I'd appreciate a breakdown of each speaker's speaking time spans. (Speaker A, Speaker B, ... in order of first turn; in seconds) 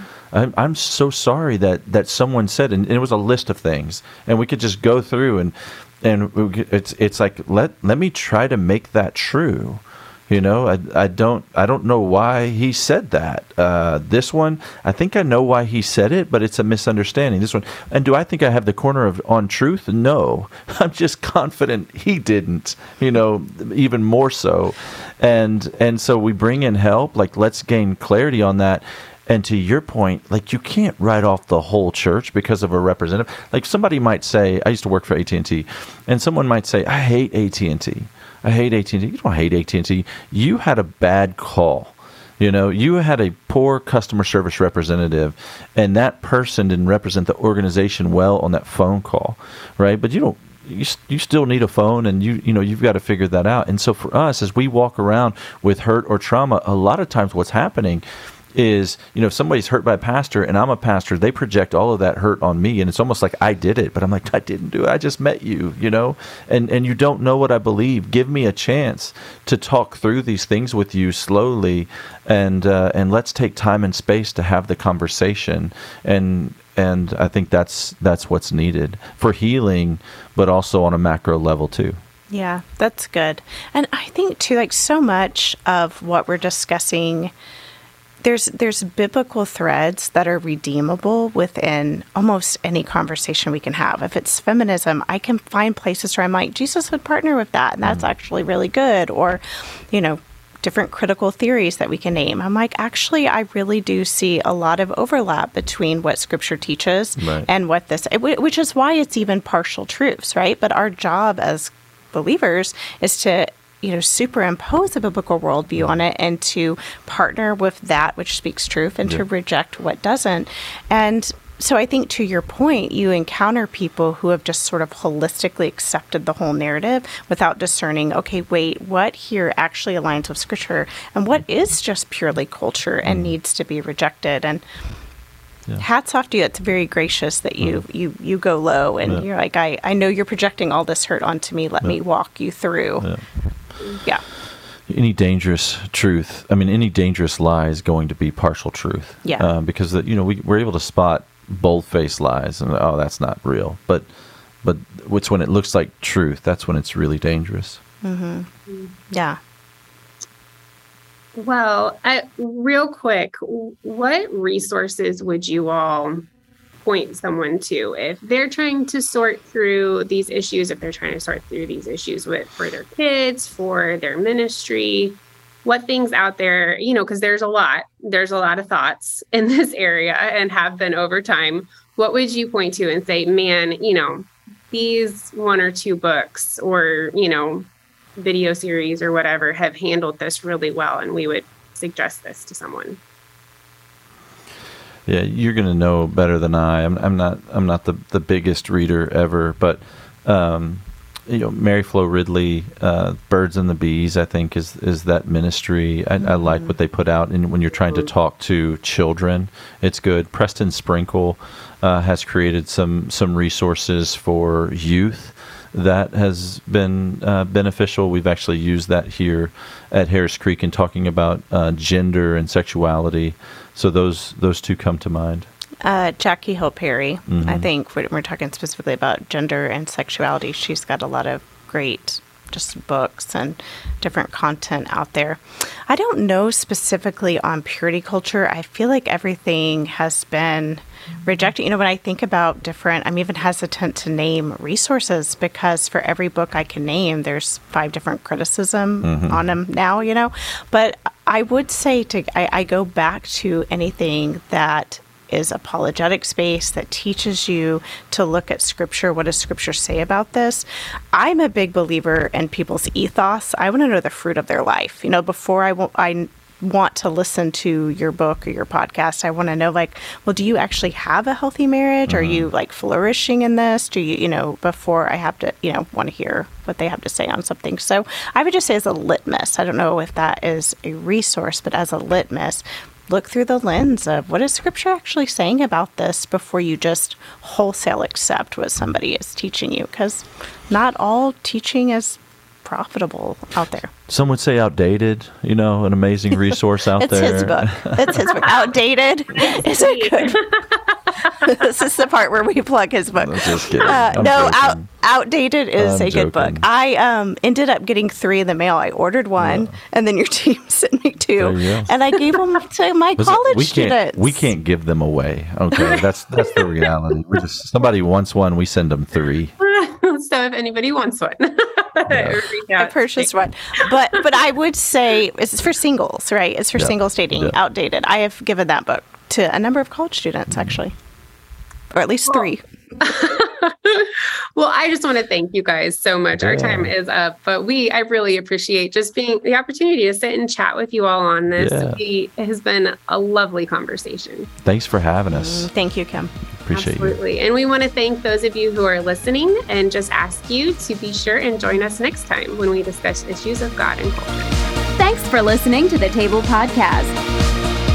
Speaker A: 0.3-82.0, 107.2-107.5, 133.1-133.3, 144.9-154.1, 154.6-157.8, 195.1-225.5, 227.3-227.7, 249.0-249.5, 272.1-272.5, 294.1-298.5, 303.1-304.8, 305.8-306.6, 309.4-309.7, 311.4-311.9, 313.2-319.5, 322.1-322.4, 326.8-327.6, 330.5-330.8, 336.4-336.9, 341.6-342.0, 344.6-345.7, 346.5-347.2
Speaker B: 82.3-87.3, 88.2-134.6, 135.8-143.1, 143.8-144.2, 149.2-149.5, 158.0-158.5, 159.1-159.4, 206.2-206.7, 225.8-293.9, 297.0-300.6, 301.3-314.5, 322.8-330.9, 331.9-332.6, 345.3-346.3
Speaker C: 161.3-166.2, 166.8-187.7, 188.2-193.0, 299.3-301.7, 315.8-316.9, 319.6-324.3, 333.0-344.5, 346.7-354.5
Speaker D: 355.0-357.2